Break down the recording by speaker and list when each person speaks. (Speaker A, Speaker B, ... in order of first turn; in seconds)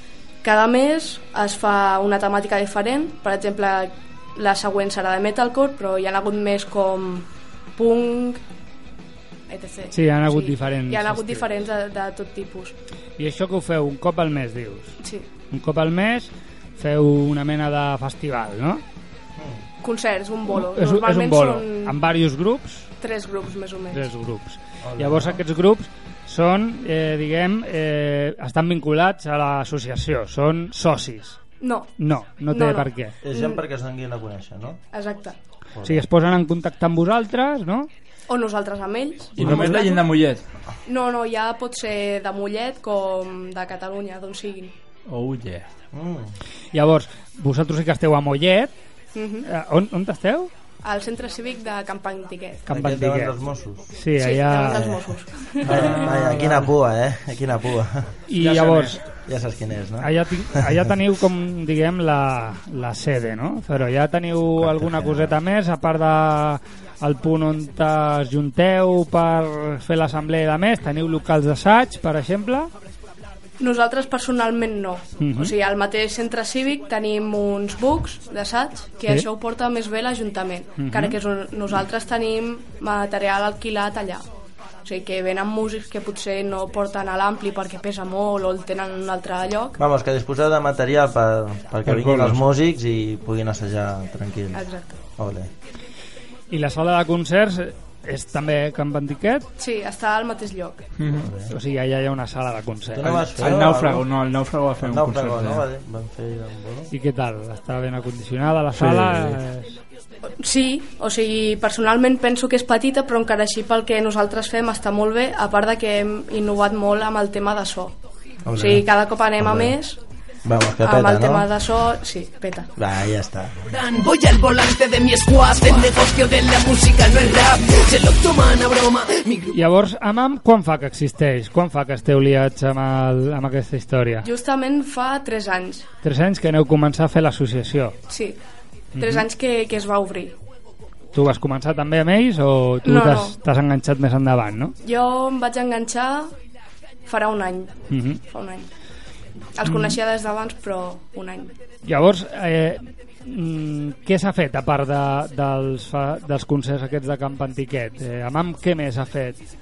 Speaker A: 0.4-8.4, 9.5-12.7, 15.0-15.3, 19.8-22.0, 23.0-24.1, 31.6-31.9, 32.5-33.6, 34.9-35.4, 38.3-40.1, 40.9-44.7, 49.1-49.5, 50.8-52.7, 54.2-56.1, 73.6-84.3, 84.8-89.8, 94.5-95.0, 99.6-100.8, 110.4-118.0, 118.5-120.0, 120.8-122.7, 134.2-135.8, 138.1-138.4, 139.0-140.3, 142.8-143.4, 144.8-146.3, 147.1-148.7, 149.6-151.5
Speaker B: 9.9-11.4, 13.2-14.9, 15.5-18.8, 20.5-22.9, 23.9-31.4, 32.0-33.1, 35.8-37.9, 46.7-48.7, 49.5-50.5, 52.7-53.3, 54.0-54.9, 55.7-56.5, 58.3-59.0, 60.0-72.7, 75.2-75.5, 80.8-81.2, 96.5-99.5, 101.5-103.3, 106.9-109.8, 129.5-134.3, 136.0-137.9, 138.9-139.2, 141.1-144.7, 147.9-148.2, 149.6-150.0, 151.8-159.4
Speaker C: 24.8-25.4, 33.2-34.8, 35.7-36.1, 39.4-39.7, 45.9-46.3, 52.7-53.9, 54.7-55.0, 55.6-58.1, 59.2-60.8, 64.6-65.4, 89.8-94.6, 95.2-95.5, 101.1-101.5, 102.9-104.0, 104.8-106.9, 118.5-118.8, 119.4-119.7, 120.4-121.5, 122.8-123.5
Speaker D: 39.4-40.4, 45.1-45.6, 58.4-58.9, 91.9-92.3, 101.0-101.3, 103.4-105.6, 108.7-109.4
Speaker E: 123.7-129.5